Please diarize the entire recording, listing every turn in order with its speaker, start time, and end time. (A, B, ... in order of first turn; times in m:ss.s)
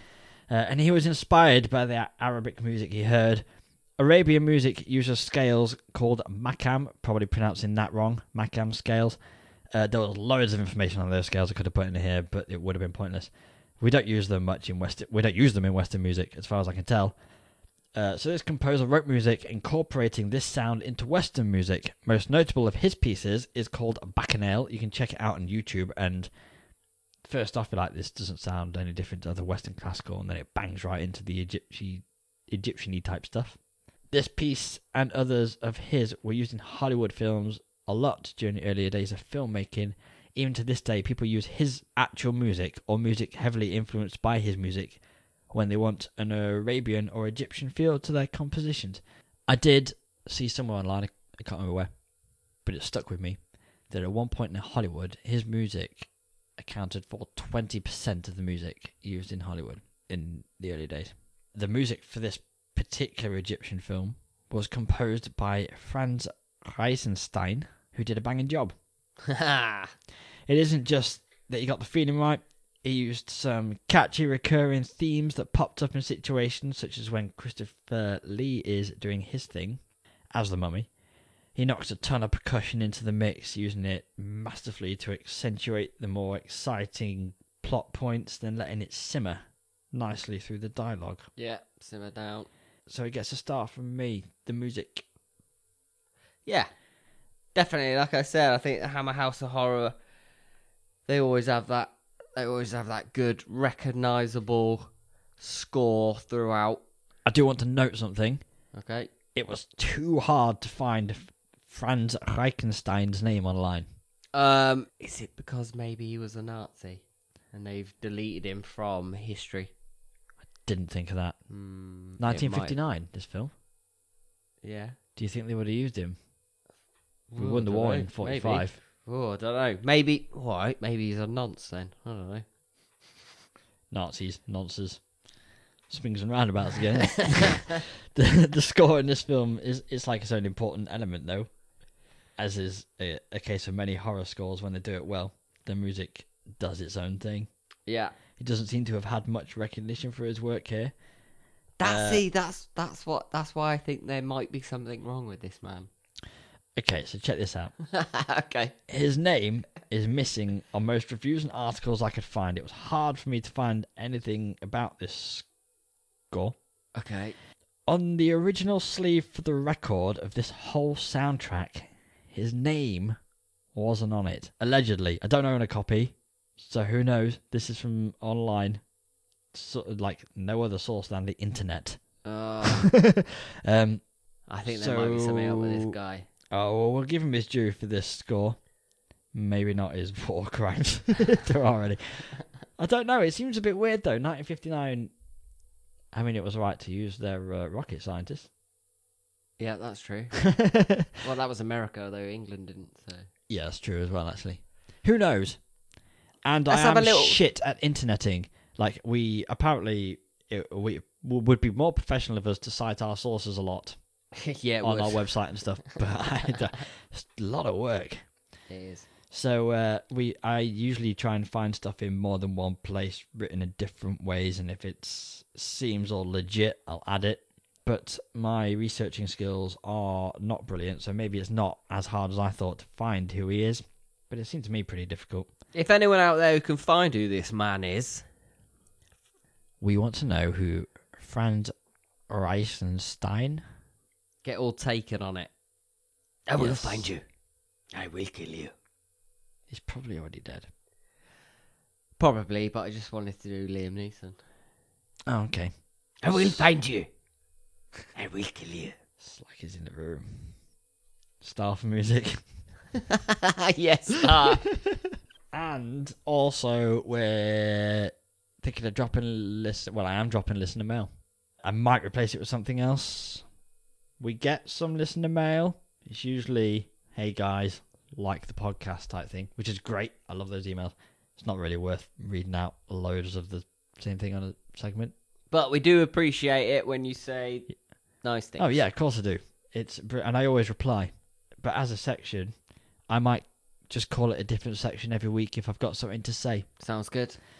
0:00.5-0:03.4 A
0:04.0-0:09.2 A
0:09.7-0:17.2 A
0:18.0-0:26.3 A
0:27.2-0:33.6 A
0:34.1-0:45.0 A
0:45.5-0:51.9 A
0:52.6-0:53.4 A
0:53.9-1:08.8 A
1:09.3-1:09.9 B
1:10.5-1:19.8 A
1:20.3-1:20.9 A
1:21.6-1:31.3 A
1:31.4-1:32.5 B
1:32.9-1:35.0 A
1:37.5-1:40.0 B
1:41.1-1:46.8 B
1:47.3-1:48.4 A
1:48.7-1:49.1 B
1:49.4-1:53.9 A
1:54.3-1:59.7 B
2:00.6-2:01.4 A
2:01.5-2:02.8 B
2:02.2-2:03.5 A
2:04.6-2:05.0 B
2:05.2-2:06.2 A
2:07.3-2:12.4 B
2:07.4-2:08.8 A
2:13.9-2:15.0 A
2:15.9-2:21.5 A
2:22.4-2:27.5 A
2:27.9-2:28.1 B
2:28.4-2:30.9 A
2:31.8-2:35.9 B
2:31.8-2:32.2 A
2:36.8-2:37.7 A
2:37.9-2:38.7 B
2:38.9-2:45.5 A
2:46.3-2:46.6 A
2:47.0-2:47.4 B
2:47.9-2:53.2 A
2:53.7-2:58.8 A
2:59.5-3:02.0 A
3:02.2-3:02.9 B
3:02.6-3:04.0 A
3:04.5-3:06.3 B
3:04.6-3:06.0 A
3:06.5-3:08.6 A
3:09.3-3:15.1 A
3:16.1-3:18.5 A
3:19.6-3:20.5 B
3:20.5-3:21.1 A
3:21.2-3:23.3 B
3:23.5-3:25.6 A
3:26.4-3:34.0 A
3:26.7-3:27.4 B
3:34.4-3:35.3 B
3:34.8-3:38.2 A
3:38.7-3:39.1 B
3:39.3-3:55.5 A
3:55.7-3:58.2 B
3:59.8-4:01.7 A
4:02.3-4:03.6 A
4:04.4-4:05.5 B
4:06.5-4:07.2 B
4:06.6-4:07.1 A
4:07.9-4:08.7 B
4:09.7-4:10.7 A
4:12.2-4:14.4 B
4:15.3-4:15.7 A
4:16.2-4:17.1 B
4:16.3-4:16.6 A
4:18.2-4:19.0 B
4:19.2-4:20.5 A
4:21.4-4:22.4 A
4:23.1-4:24.6 B
4:24.2-4:25.0 A
4:25.5-4:31.1 A
4:31.6-4:33.4 A
4:34.2-4:45.1 A
4:45.5-4:47.7 B
4:48.2-4:48.8 B
4:48.6-4:52.5 A
4:53.1-4:56.7 A
4:56.8-4:57.4 B